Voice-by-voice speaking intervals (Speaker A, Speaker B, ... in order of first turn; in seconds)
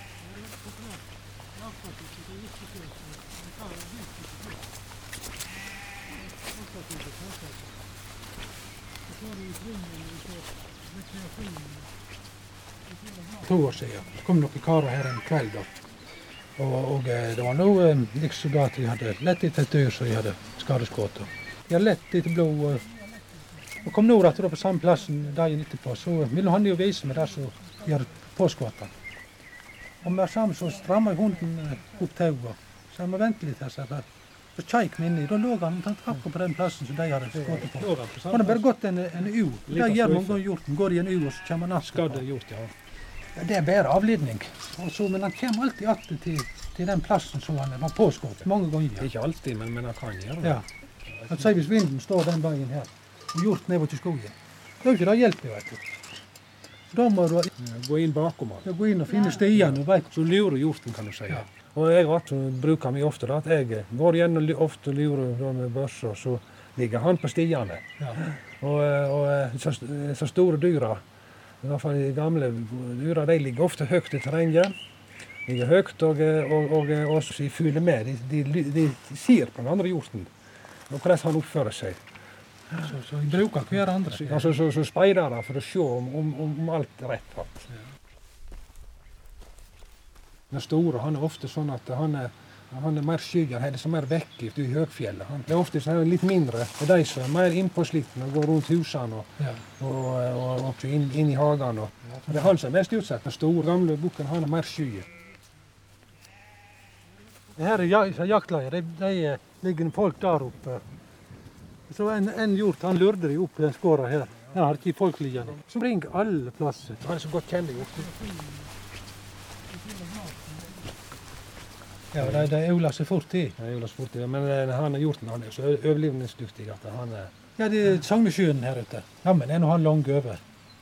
Speaker A: 0.4-0.9, 1.6-4.5, 6.9-7.2, 9.2-11.8, 37.3-38.6, 39.7-40.4, 41.9-42.7, 49.0-50.6, 57.6-58.7, 59.2-71.0, 71.6-74.7, 75.5-80.3, 80.9-82.0, 84.1-87.7, 90.5-105.1, 117.0-118.5, 122.2-122.5, 123.6-127.3
Speaker B: 13.4-15.7, 16.6-23.0, 23.8-28.9, 30.0-42.2, 43.4-49.1, 50.4-50.7, 51.2-55.8, 56.9-57.5, 58.6-60.1, 82.7-84.5, 99.4-99.6, 102.2-102.5, 107.5-110.8, 111.9-117.0, 122.1-123.5, 127.6-130.4